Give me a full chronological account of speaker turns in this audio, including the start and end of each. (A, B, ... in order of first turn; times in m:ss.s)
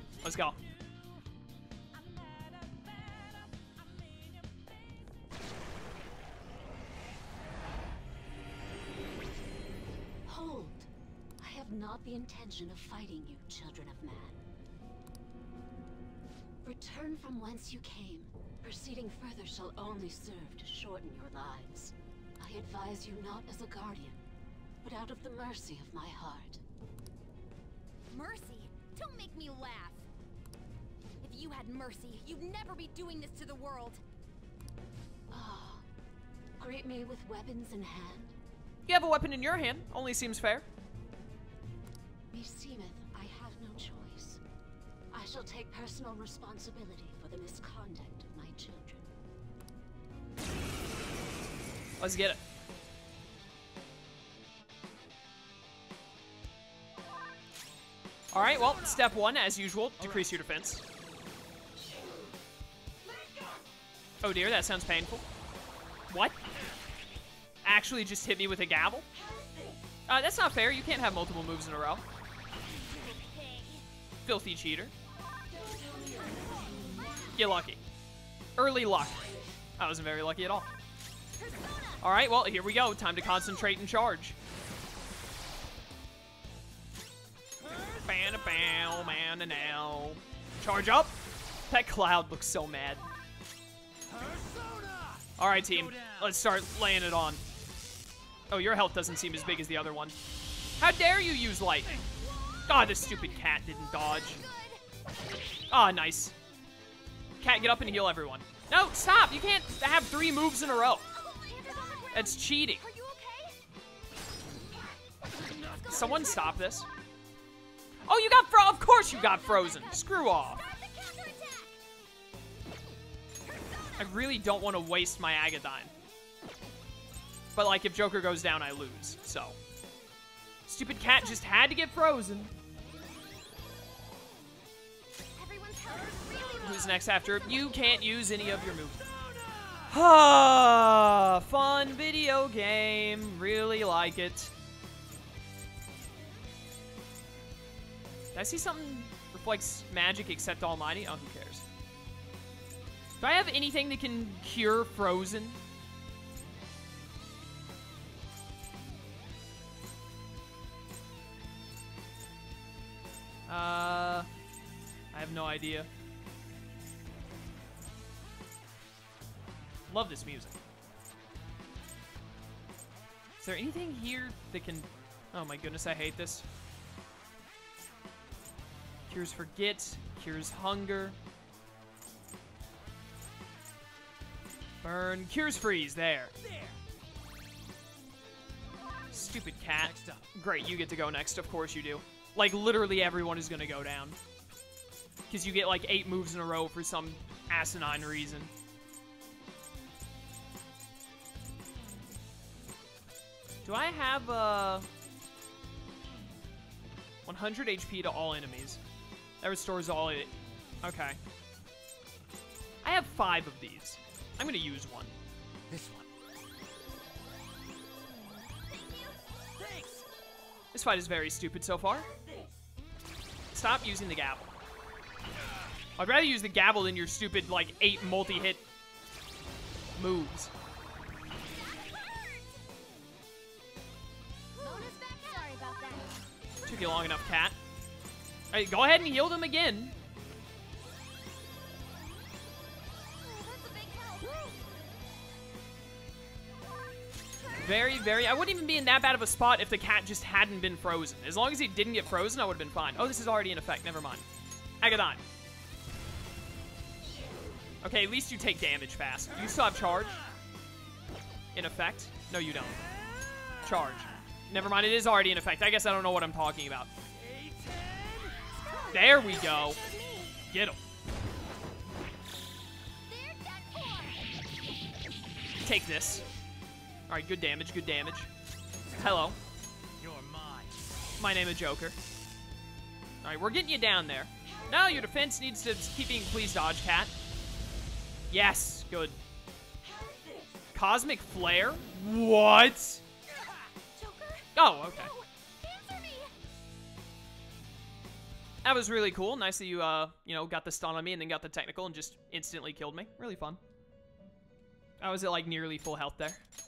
0:00.2-0:00.6 A
0:10.2-0:10.9 B
0:11.4-0:14.4 B
0:16.6-0:24.2 B
0:24.8-0:26.6 B
0:28.1-0:30.0 C
0:31.2-0:34.0 C
0:35.3-0:35.8 B
0:36.6-0:38.3 B
0:38.8-0:40.6 A
0:42.3-0:44.4 B
0:45.1-0:49.0 B
0:52.0-0:52.4 A
0:58.3-1:00.8 A
1:04.2-1:05.2 A
1:06.1-1:06.4 A
1:07.6-1:09.0 A
1:10.1-1:12.0 A
1:12.9-1:13.8 C
1:14.2-1:14.9 A
1:16.6-1:17.2 C
1:17.3-1:17.8 A
1:18.6-1:20.7 A
1:21.3-1:22.0 C
1:22.0-1:24.4 A
1:28.0-1:31.2 A
1:31.7-1:33.1 A
1:34.1-1:35.2 D
1:35.4-1:37.4 A
1:38.5-1:40.2 A
1:40.8-1:42.0 A
1:42.2-1:44.8 C
1:42.7-1:44.4 A
1:45.7-1:46.3 A
1:47.4-1:51.1 A
1:51.0-1:53.6 C
1:52.1-1:52.8 A
1:55.6-1:56.5 C
1:55.9-1:56.9 A
1:58.0-2:00.6 A
1:59.0-2:01.8 C
2:04.0-2:05.9 A
2:07.5-2:09.6 A
2:10.7-2:12.5 A
2:15.4-2:17.9 C
2:16.5-2:19.0 A
2:19.8-2:24.5 A
2:28.3-2:31.6 A
2:33.2-2:35.6 A
2:43.5-2:44.3 A
2:45.1-2:45.9 A
2:49.9-2:50.6 A
2:53.4-2:56.4 A
2:59.1-3:01.2 A
3:04.8-3:06.3 A
3:06.5-3:06.7 D
3:09.1-3:14.2 A
3:09.8-3:10.2 D
3:15.3-3:18.5 A
3:23.6-3:24.9 A
3:27.2-3:28.8 A
3:29.4-3:31.2 A
3:32.8-3:35.1 A
3:35.7-3:36.1 D
3:39.6-3:40.0 D
3:40.7-3:42.1 A
3:43.5-3:44.5 A
3:46.0-3:48.6 A
3:50.0-3:50.5 A
3:51.5-3:52.6 C
3:54.6-3:56.1 C
3:56.6-3:57.5 A
3:58.5-3:59.9 A
4:03.1-4:04.5 C
4:07.5-4:14.2 A
4:14.8-4:15.2 A
4:17.8-4:20.2 A
4:21.5-4:22.8 A
4:23.6-4:26.9 A
4:27.3-4:28.3 D
4:28.5-4:30.4 C
4:28.9-4:29.8 A
4:30.5-4:30.8 A
4:33.1-4:34.2 C
4:35.6-4:36.2 A
4:37.1-4:38.3 A
4:39.0-4:39.4 A
4:40.0-4:40.8 D
4:41.2-4:42.0 A
4:43.2-4:47.1 A
4:48.3-4:49.2 A
4:50.7-4:53.0 A
4:54.0-4:56.3 C
4:54.5-4:55.1 A
4:58.6-5:03.6 A
5:05.0-5:06.4 A